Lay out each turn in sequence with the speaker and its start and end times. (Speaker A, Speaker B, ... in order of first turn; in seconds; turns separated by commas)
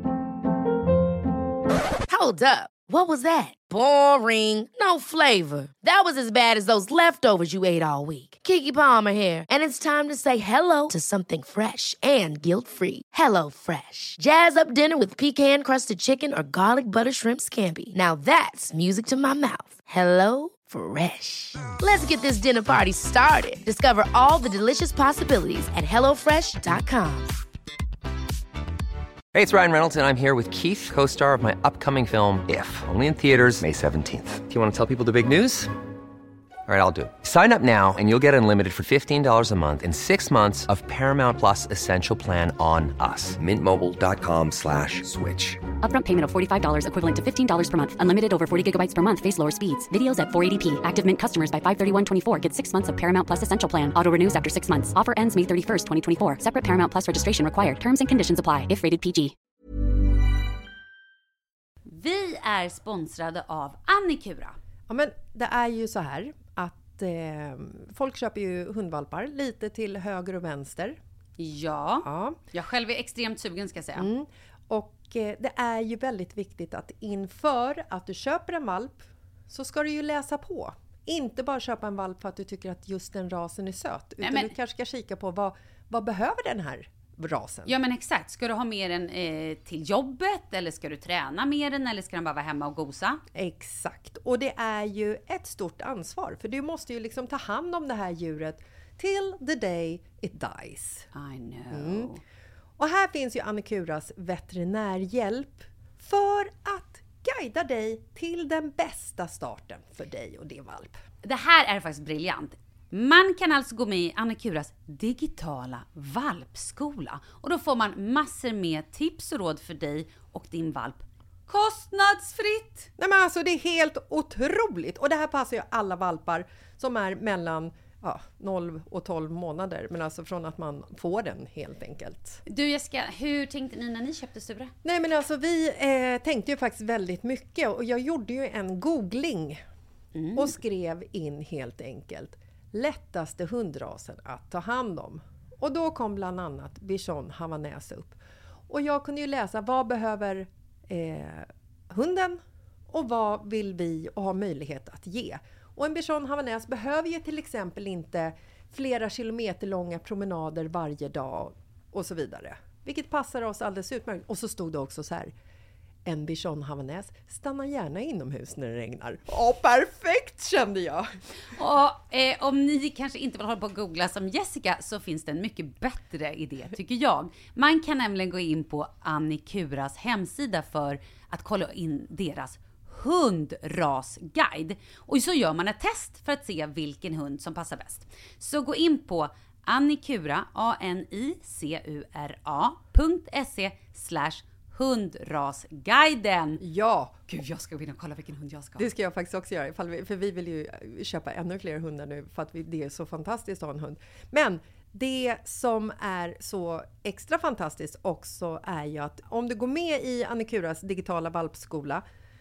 Speaker A: 2.1-27.4, Speaker B: 29.3-35.7, Speaker B: 36.7-45.6, Speaker C: 45.8-59.3, Speaker D: 61.9-64.6, Speaker E: 64.9-71.0, Speaker D: 71.4-74.1, Speaker E: 72.0-72.4, Speaker E: 74.0-87.8, Speaker D: 84.2-84.5, Speaker D: 87.7-93.2, Speaker E: 93.3-101.1, Speaker D: 101.1-102.2, Speaker E: 101.7-102.1, Speaker E: 102.8-111.0, Speaker D: 111.2-122.9, Speaker E: 123.0-132.4, Speaker D: 132.5-134.7, Speaker E: 134.8-139.6, Speaker D: 140.2-140.5, Speaker E: 140.3-165.3, Speaker E: 166.1-171.1, Speaker D: 171.5-196.6, Speaker E: 196.6-197.3, Speaker D: 197.3-198.9, Speaker E: 198.8-212.0